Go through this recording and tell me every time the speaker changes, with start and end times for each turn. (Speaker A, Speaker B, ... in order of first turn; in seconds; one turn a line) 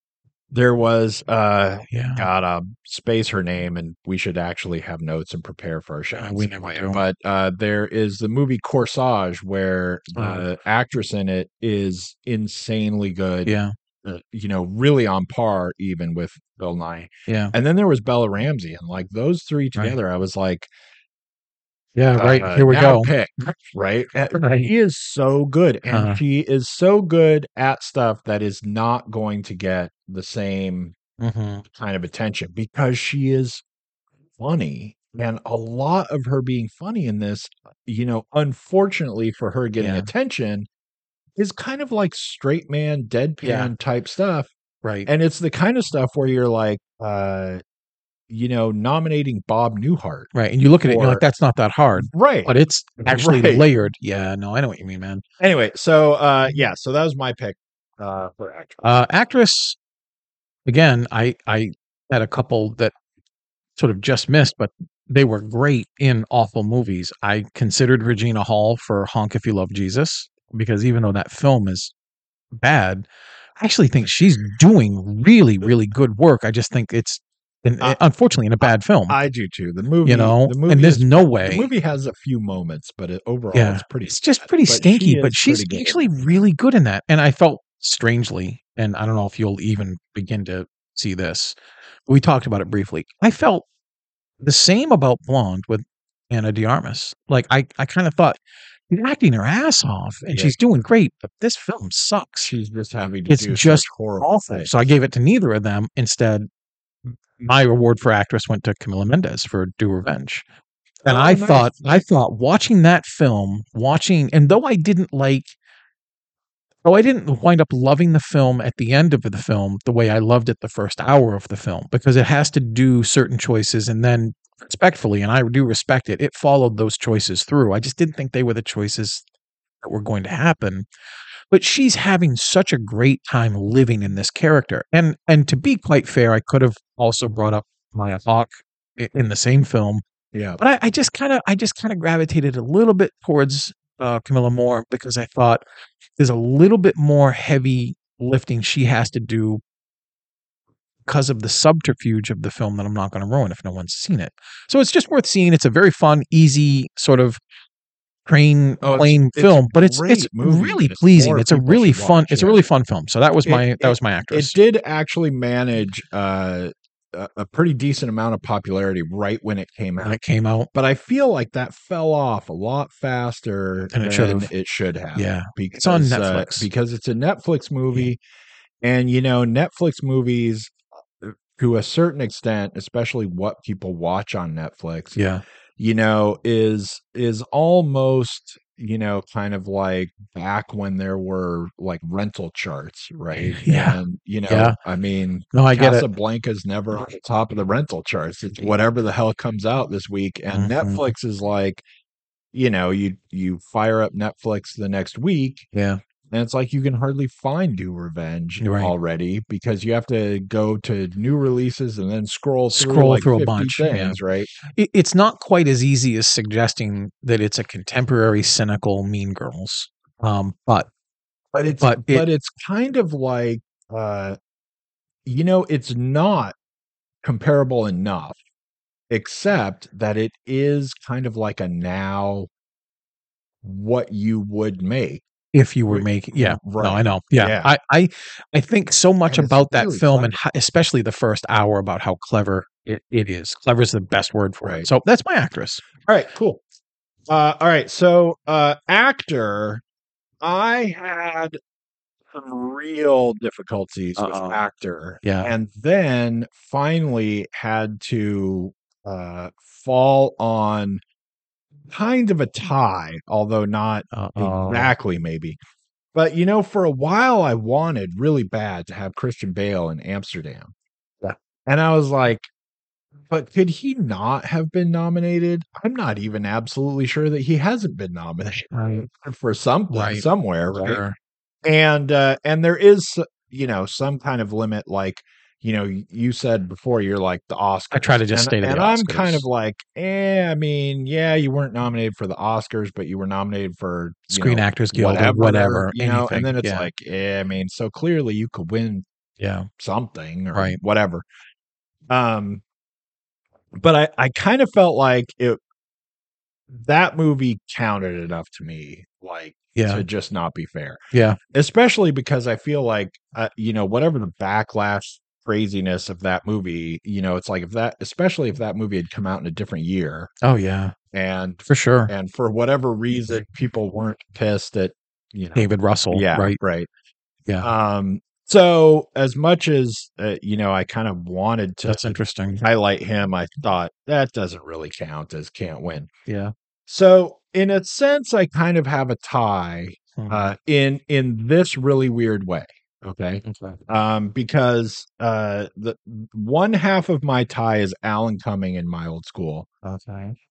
Speaker A: 0.5-20.7
Speaker B: 1.9-2.3
Speaker B: 6.1-7.0
Speaker B: 10.1-10.4
Speaker B: 13.4-13.7
Speaker B: 17.3-17.5
Speaker B: 21.9-23.1
Speaker A: 22.1-30.9
Speaker B: 24.3-24.7
Speaker B: 25.9-26.2
Speaker B: 31.2-31.6
Speaker A: 31.7-33.6
Speaker A: 34.4-40.7
Speaker B: 39.8-40.1
Speaker A: 41.4-44.5
Speaker B: 43.4-43.7
Speaker B: 44.8-45.1
Speaker A: 45.0-47.6
Speaker A: 48.3-50.3
Speaker B: 50.3-55.2
Speaker A: 50.8-51.2
Speaker A: 52.0-53.7
Speaker A: 55.4-58.9
Speaker B: 58.8-59.8
Speaker B: 60.6-62.9
Speaker B: 63.8-71.9
Speaker B: 72.5-73.1
Speaker B: 73.6-79.2
Speaker A: 78.6-86.4
Speaker B: 80.0-81.7
Speaker B: 83.5-93.6
Speaker B: 94.4-98.4
Speaker B: 98.9-102.5
Speaker A: 102.4-104.7
Speaker B: 103.3-106.5
Speaker B: 107.1-110.5
Speaker A: 111.0-112.0
Speaker B: 111.0-115.5
Speaker B: 116.8-129.2
Speaker B: 129.8-130.9
Speaker B: 131.5-140.0
Speaker A: 140.3-140.6
Speaker B: 140.6-145.6
Speaker B: 146.2-149.6
Speaker B: 151.1-157.4
Speaker B: 158.3-164.6
Speaker A: 158.8-162.6
Speaker A: 163.4-170.2
Speaker B: 170.0-170.7
Speaker A: 170.7-178.2
Speaker B: 173.9-174.5
Speaker B: 175.1-176.7
Speaker A: 178.8-185.2
Speaker B: 185.2-185.4
Speaker A: 185.8-201.8
Speaker B: 193.3-194.8
Speaker B: 195.5-196.1
Speaker B: 200.5-201.1
Speaker A: 202.5-205.7
Speaker B: 205.7-206.0
Speaker A: 206.3-214.5
Speaker B: 208.6-208.9
Speaker B: 212.7-220.9
Speaker A: 221.5-224.4
Speaker B: 221.8-222.3
Speaker A: 225.3-226.6
Speaker A: 227.2-228.4
Speaker A: 229.1-232.5
Speaker A: 233.6-235.2
Speaker B: 235.5-245.8
Speaker A: 235.9-237.7
Speaker A: 239.3-240.4
Speaker A: 244.6-244.9
Speaker A: 246.1-246.6
Speaker A: 247.3-249.8
Speaker A: 250.4-251.6
Speaker A: 252.3-261.0
Speaker B: 254.2-254.6
Speaker B: 255.2-255.5
Speaker A: 261.9-265.6
Speaker B: 264.1-264.9
Speaker A: 266.1-270.7
Speaker A: 271.6-272.5
Speaker A: 273.3-281.0
Speaker B: 278.7-279.1
Speaker B: 279.9-281.1
Speaker A: 281.6-299.1
Speaker B: 287.9-289.4
Speaker B: 294.3-296.9
Speaker B: 299.4-299.7
Speaker A: 299.8-301.2
Speaker A: 302.1-302.6
Speaker A: 303.8-305.6
Speaker A: 306.7-311.0
Speaker B: 309.7-310.1
Speaker B: 311.1-311.4
Speaker A: 311.5-320.3
Speaker B: 320.4-320.9
Speaker A: 321.1-326.9
Speaker B: 321.7-322.1
Speaker B: 325.6-326.6
Speaker A: 327.6-336.1
Speaker B: 331.9-332.6
Speaker B: 336.3-336.5
Speaker A: 336.9-349.7
Speaker B: 340.1-340.5
Speaker B: 343.4-343.8
Speaker B: 349.8-350.4